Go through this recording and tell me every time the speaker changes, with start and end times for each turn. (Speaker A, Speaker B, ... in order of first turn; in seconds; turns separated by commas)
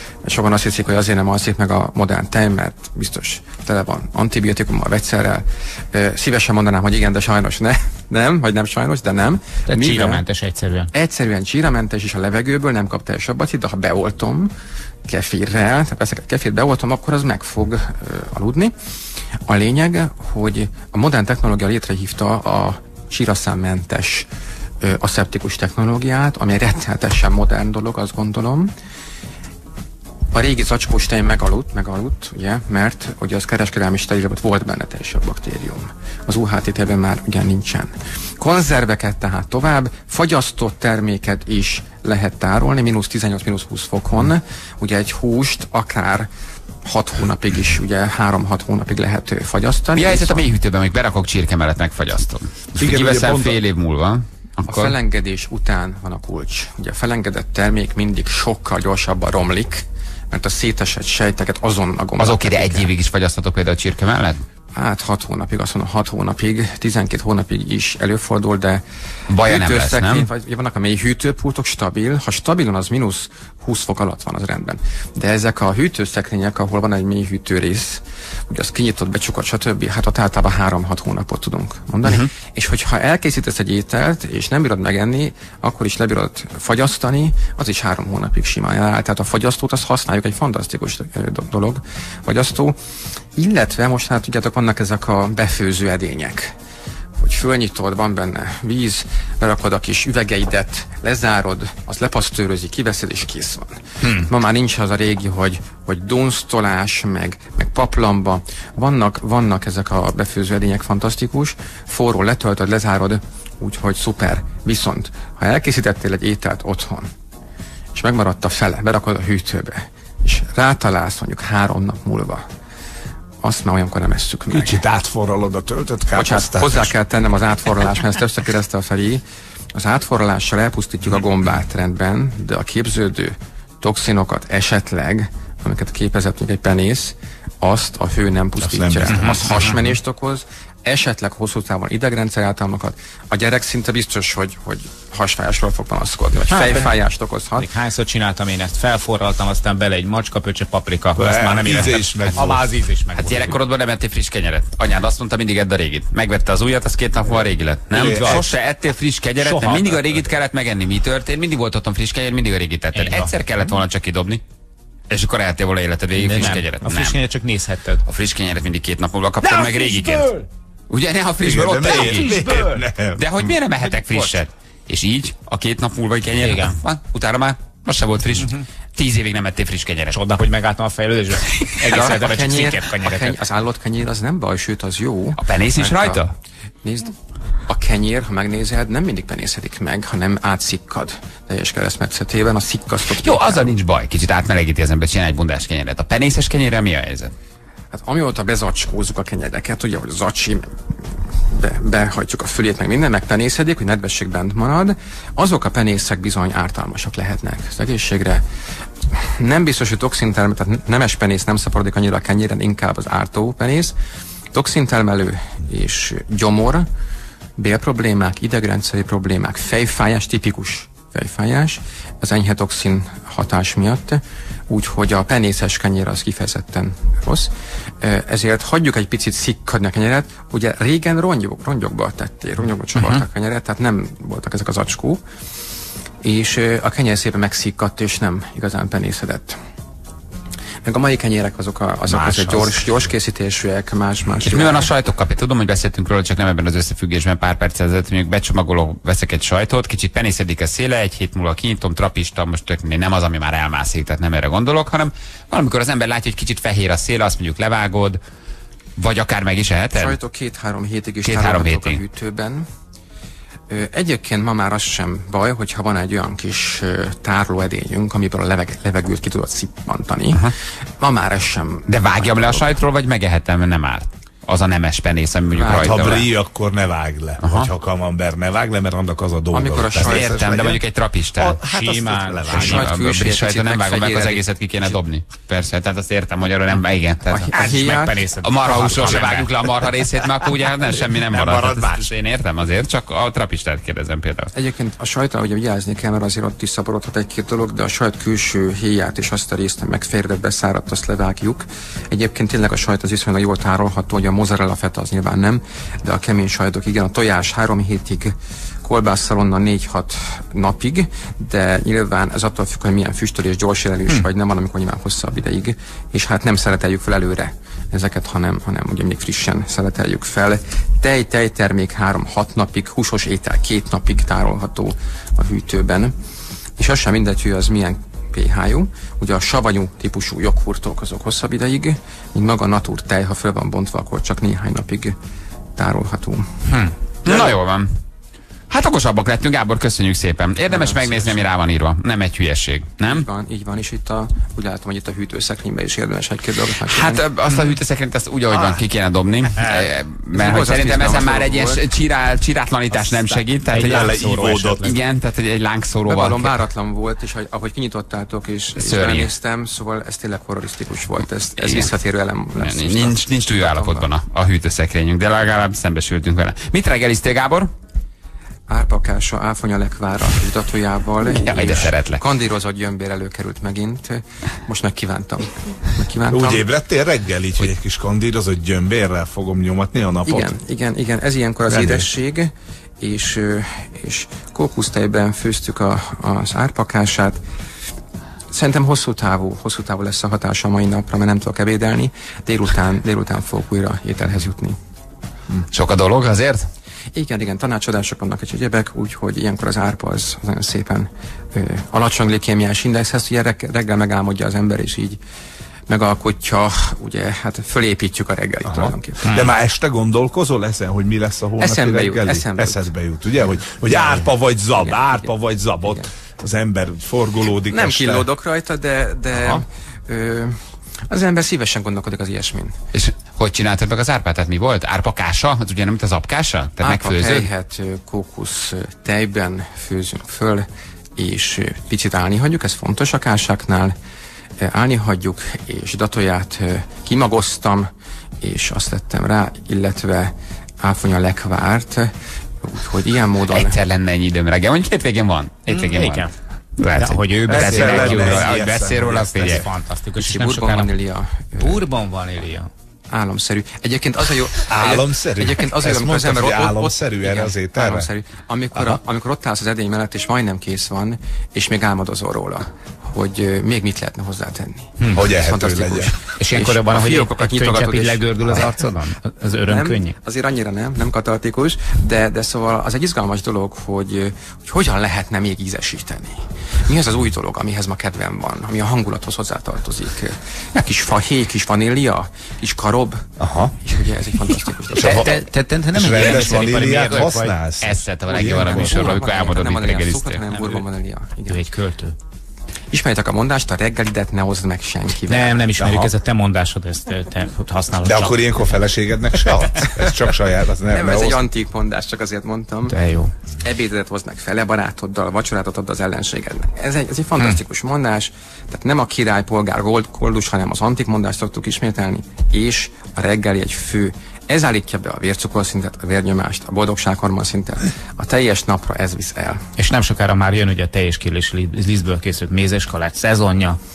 Speaker A: 0.2-10.2, Speaker B: 9.7-10.9, Speaker A: 10.9-14.5, Speaker A: 15.1-18.7, Speaker A: 19.5-24.3, Speaker A: 24.8-28.7, Speaker A: 30.3-46.3, Speaker A: 46.8-50.5, Speaker C: 49.9-55.0, Speaker D: 52.8-53.6, Speaker A: 54.6-62.9, Speaker C: 62.2-64.4, Speaker A: 64.7-68.8, Speaker C: 69.3-70.3, Speaker A: 69.4-92.8, Speaker C: 82.0-82.3, Speaker A: 93.3-96.5, Speaker A: 97.2-117.1, Speaker A: 117.9-122.4, Speaker A: 123.4-124.8, Speaker D: 124.5-126.9, Speaker A: 126.1-129.2, Speaker A: 129.7-147.7, Speaker D: 138.6-139.4, Speaker B: 139.1-139.7, Speaker B: 146.4-146.9, Speaker B: 147.6-153.6, Speaker D: 151.2-152.7, Speaker C: 153.1-164.4, Speaker D: 157.9-158.4, Speaker B: 158.0-158.5, Speaker B: 159.4-160.2, Speaker B: 162.9-163.3, Speaker C: 165.1-167.2, Speaker B: 166.1-168.0, Speaker C: 168.1-172.4, Speaker B: 169.4-170.4, Speaker D: 171.4-173.3, Speaker B: 172.0-172.8, Speaker C: 173.2-180.2, Speaker B: 174.0-174.4, Speaker B: 176.4-176.8, Speaker B: 180.1-183.4, Speaker A: 181.8-186.2, Speaker C: 185.4-186.3, Speaker A: 186.8-187.1, Speaker A: 187.7-193.8, Speaker C: 193.1-197.3, Speaker A: 197.9-200.7, Speaker A: 201.4-208.4, Speaker A: 209.1-213.9, Speaker A: 214.5-216.9, Speaker A: 217.6-227.5, Speaker A: 228.0-235.2, Speaker B: 232.9-233.2, Speaker A: 236.2-239.6, Speaker A: 240.8-244.9, Speaker B: 242.1-242.7, Speaker C: 244.4-258.2, Speaker C: 259.0-260.2, Speaker A: 259.9-262.6, Speaker C: 261.2-262.0, Speaker A: 263.7-270.4, Speaker A: 271.0-272.7, Speaker C: 271.9-276.3, Speaker A: 275.5-276.2, Speaker D: 275.7-280.8, Speaker C: 277.4-277.7, Speaker A: 279.5-280.4, Speaker C: 280.0-281.6, Speaker D: 281.4-282.9, Speaker B: 281.7-282.9, Speaker A: 282.4-284.5, Speaker C: 282.6-287.7, Speaker A: 287.3-288.2, Speaker B: 287.5-289.5, Speaker C: 288.4-294.5, Speaker D: 291.3-292.0, Speaker A: 294.5-326.1, Speaker A: 326.8-335.1, Speaker A: 335.8-336.5, Speaker C: 337.2-337.9, Speaker A: 337.3-337.6, Speaker C: 338.7-343.2, Speaker A: 340.7-341.3, Speaker A: 343.0-347.2, Speaker C: 346.7-354.2, Speaker D: 348.5-348.8, Speaker A: 350.3-351.8, Speaker B: 352.9-355.0, Speaker D: 353.7-354.9, Speaker C: 354.8-356.5, Speaker A: 356.0-364.1, Speaker C: 358.8-359.3, Speaker C: 361.6-361.9, Speaker C: 362.6-367.7, Speaker A: 368.7-376.7, Speaker C: 371.3-372.2, Speaker D: 376.3-380.5, Speaker A: 380.2-387.4, Speaker D: 381.7-382.1, Speaker A: 388.5-394.8, Speaker C: 395.7-396.7, Speaker A: 397.1-405.2, Speaker A: 405.9-409.5, Speaker D: 408.6-418.3, Speaker A: 411.6-412.9, Speaker A: 414.7-415.3, Speaker A: 417.6-420.6, Speaker D: 419.3-419.6, Speaker A: 421.1-422.8, Speaker C: 422.9-427.5, Speaker A: 426.8-433.9, Speaker A: 434.6-437.9, Speaker A: 438.4-442.1, Speaker A: 442.6-443.8, Speaker C: 443.5-446.3, Speaker B: 445.7-446.3, Speaker C: 446.8-449.6, Speaker B: 446.9-450.9, Speaker D: 447.5-449.6, Speaker A: 450.2-451.8, Speaker B: 451.6-452.7, Speaker A: 453.1-468.9, Speaker D: 454.7-458.1, Speaker B: 465.0-465.3, Speaker D: 465.1-466.1, Speaker B: 466.3-470.1, Speaker A: 469.7-483.2, Speaker D: 483.4-483.8, Speaker A: 483.8-485.4, Speaker D: 484.9-485.3, Speaker B: 484.9-487.6, Speaker D: 485.9-489.2, Speaker C: 487.8-490.4, Speaker A: 488.3-491.6, Speaker B: 488.7-489.3, Speaker B: 490.5-490.8, Speaker B: 491.5-492.1, Speaker A: 492.9-495.6, Speaker B: 495.3-498.4, Speaker D: 495.8-496.1, Speaker D: 498.0-501.5, Speaker A: 500.9-502.9, Speaker B: 502.9-503.3, Speaker A: 503.6-519.6, Speaker B: 519.8-523.8